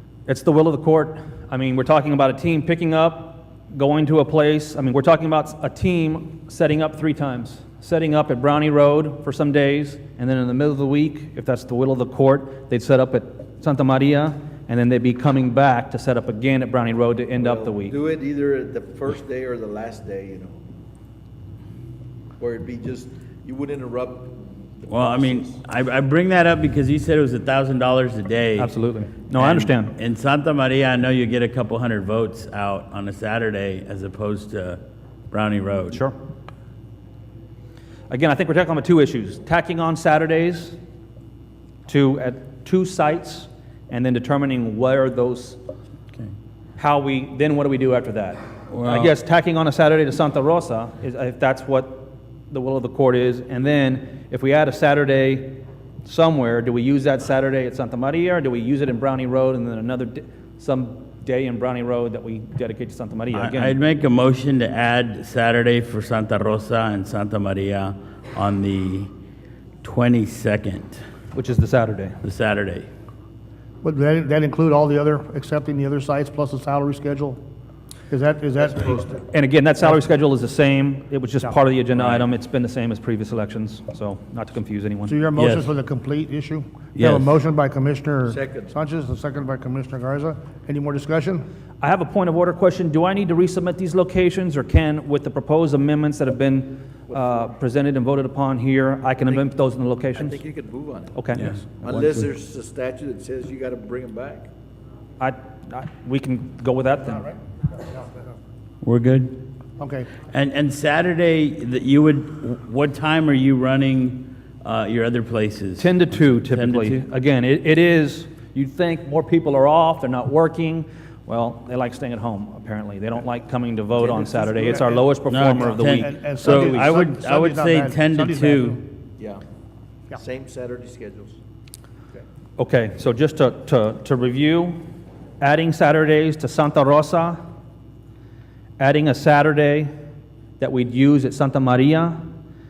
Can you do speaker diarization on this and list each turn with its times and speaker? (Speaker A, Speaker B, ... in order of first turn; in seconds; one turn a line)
Speaker A: 0.3-18.0
Speaker B: 17.4-20.7
Speaker B: 22.4-25.6
Speaker C: 24.9-28.7
Speaker A: 28.6-29.9
Speaker C: 29.3-34.8
Speaker C: 35.3-36.0
Speaker A: 38.1-40.8
Speaker A: 41.9-45.6
Speaker A: 46.8-63.8
Speaker C: 48.7-49.1
Speaker C: 63.3-69.1
Speaker C: 69.8-71.0
Speaker A: 71.3-72.2
Speaker C: 72.2-72.9
Speaker D: 73.8-77.4
Speaker D: 78.1-79.2
Speaker B: 78.7-79.2
Speaker A: 79.3-85.2
Speaker D: 85.1-91.4
Speaker C: 85.4-85.7
Speaker C: 87.0-87.3
Speaker B: 88.3-88.7
Speaker A: 91.8-100.4
Speaker B: 100.2-101.2
Speaker A: 101.1-102.1
Speaker C: 101.3-102.2
Speaker B: 101.8-104.5
Speaker A: 105.2-107.4
Speaker C: 108.8-109.5
Speaker D: 109.8-110.1
Speaker C: 110.3-117.0
Speaker A: 115.8-126.8
Speaker D: 124.0-128.8
Speaker C: 125.3-128.8
Speaker B: 129.2-129.4
Speaker B: 130.2-131.4
Speaker A: 132.6-134.8
Speaker A: 135.4-137.4
Speaker A: 138.8-139.9
Speaker A: 140.6-142.3